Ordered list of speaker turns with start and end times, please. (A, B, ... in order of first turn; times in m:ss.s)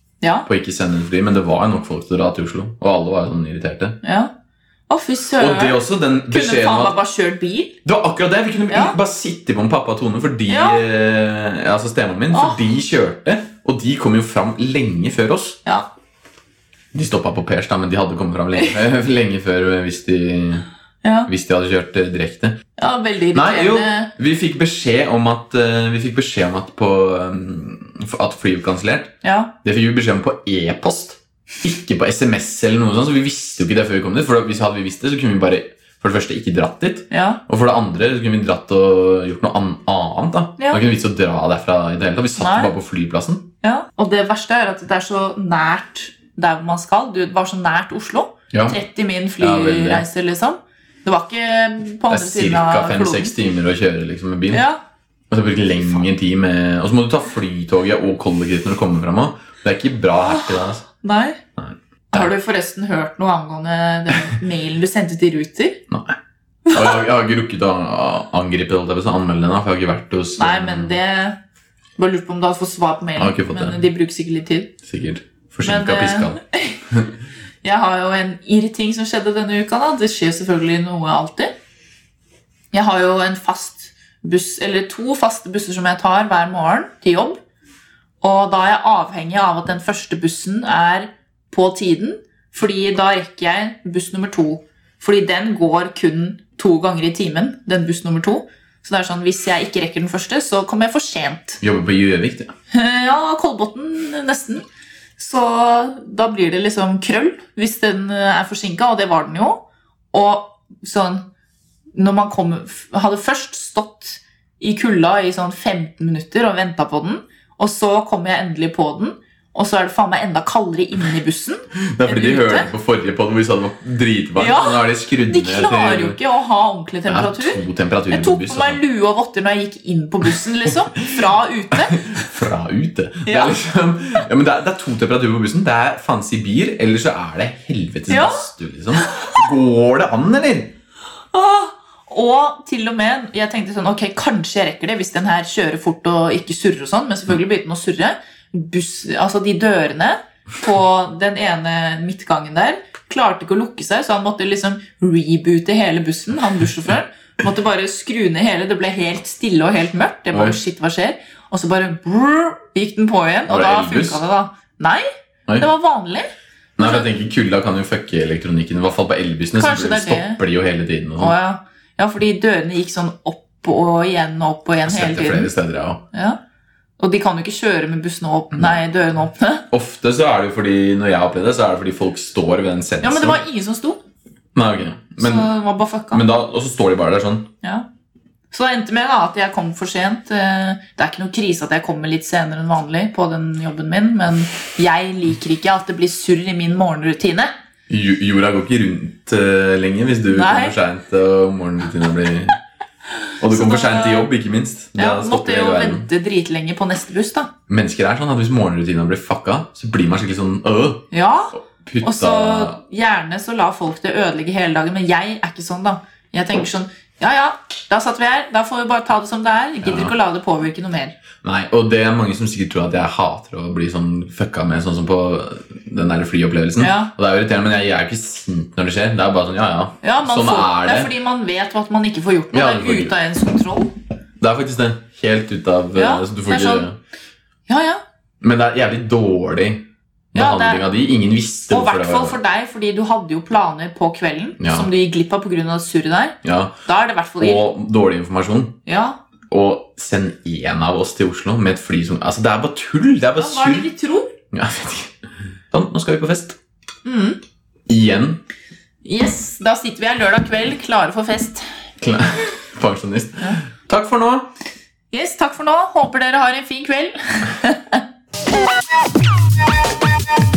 0:00.2-0:00.5 A
0:00.5-0:04.0 B
0:04.0-0:04.3 A
0:04.9-0:07.8 A
0:05.4-0:07.0 B
0:07.8-0:15.6 B
0:08.7-0:09.0 A
0:10.5-0:10.8 A
0:12.3-0:12.7 A
0:16.9-0:20.7 B
0:21.0-0:21.3 A
0:21.3-0:22.6 B
0:22.8-0:24.1 A
0:23.3-0:43.5 B
0:29.2-0:29.6 A
0:37.1-0:37.4 A
0:40.6-0:40.8 A
0:42.4-0:42.7 A
0:43.6-0:53.3 A
0:48.5-0:48.8 B
0:49.4-0:50.0 B
0:52.1-0:54.7 B
0:54.5-0:54.8 A
0:55.3-1:00.8 B
1:00.2-1:01.4 A
1:01.6-1:02.3 B
1:02.1-1:05.8 A
1:05.9-1:06.2 B
1:06.7-1:07.0 A
1:06.7-1:11.0 B
1:10.4-1:11.4 A
1:12.0-1:14.8 A
1:13.2-1:13.8 B
1:14.8-1:16.4 B
1:15.6-1:16.8 A
1:17.6-1:21.5 A
1:22.7-1:27.4 A
1:28.2-1:41.6 A
1:41.6-1:42.5 B
1:42.7-1:44.6 A
1:45.2-1:51.3 A
1:52.0-2:02.7 A
2:01.8-2:06.2 B
2:04.4-2:12.2 A
2:07.1-2:08.8 B
2:11.8-2:20.8 B
2:13.3-2:13.6 A
2:18.1-2:18.4 A
2:19.0-2:19.4 A
2:21.3-2:45.1 A
2:40.3-2:40.6 B
2:43.5-2:44.2 B
2:45.6-2:47.1 A
2:46.8-2:51.3 B
2:49.5-2:50.4 A
2:51.2-2:55.5 A
2:54.8-2:56.0 B
2:56.1-2:56.4 A
2:57.0-2:59.6 A
2:59.7-3:03.4 B
3:03.0-3:04.0 A
3:04.6-3:05.5 B
3:05.2-3:06.2 A
3:06.1-3:07.5 B
3:08.5-3:17.5 A
3:17.9-3:22.6 B
3:20.3-3:20.8 A
3:23.4-3:26.1 B
3:23.4-3:24.3 A
3:25.0-3:27.5 A
3:27.7-3:32.8 B
3:31.1-3:41.2 A
3:39.8-3:40.1 B
3:41.4-3:51.1 B
3:46.8-3:47.1 A
3:50.0-3:53.9 A
3:52.5-3:53.1 B
3:54.4-3:57.0 B
3:56.0-3:56.9 A
3:57.7-3:58.0 A
3:58.4-4:02.4 B
4:00.4-4:00.9 A
4:01.7-4:07.6 A
4:04.6-4:04.9 B
4:06.4-4:06.8 B
4:07.4-4:08.8 B
4:08.9-4:09.2 A
4:09.5-4:13.9 B
4:13.4-4:14.3 A
4:14.5-4:15.2 B
4:15.7-4:16.6 B
4:17.0-4:17.4 A
4:17.9-4:18.4 B
4:19.0-4:21.7 A
4:22.0-4:24.5 B
4:25.1-4:28.0 A